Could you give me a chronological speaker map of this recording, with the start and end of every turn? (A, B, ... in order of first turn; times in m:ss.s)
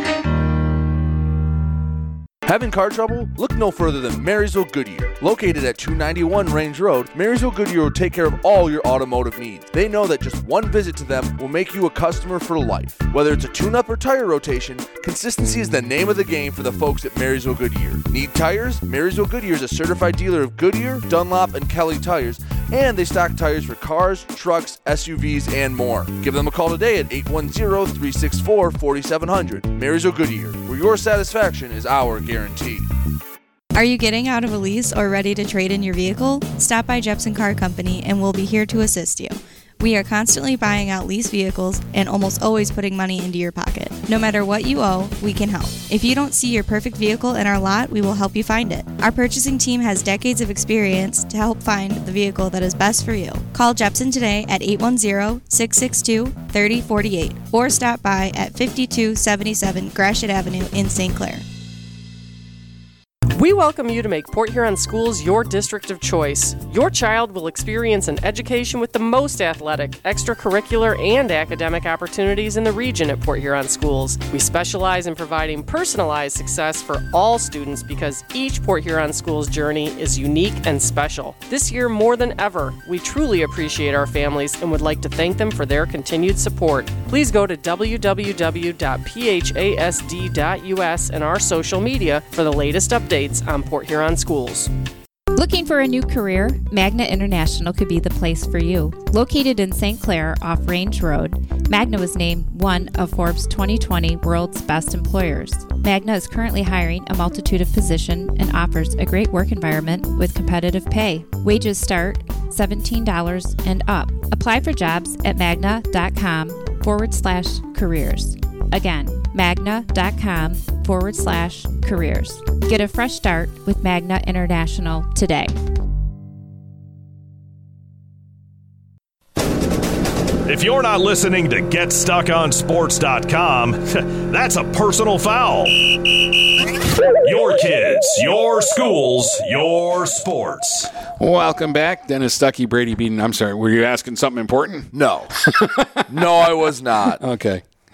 0:02.4-0:32.9 A
0:33.7-1:01.4 B
1:03.3-1:34.7 C
1:35.3-2:05.6 D
2:10.5-2:15.7 E
2:17.2-2:20.9 E
2:21.2-2:24.9 F
2:24.9-2:25.4 A
2:25.4-2:26.0 F
2:26.0-2:27.2 A
2:27.2-2:27.6 F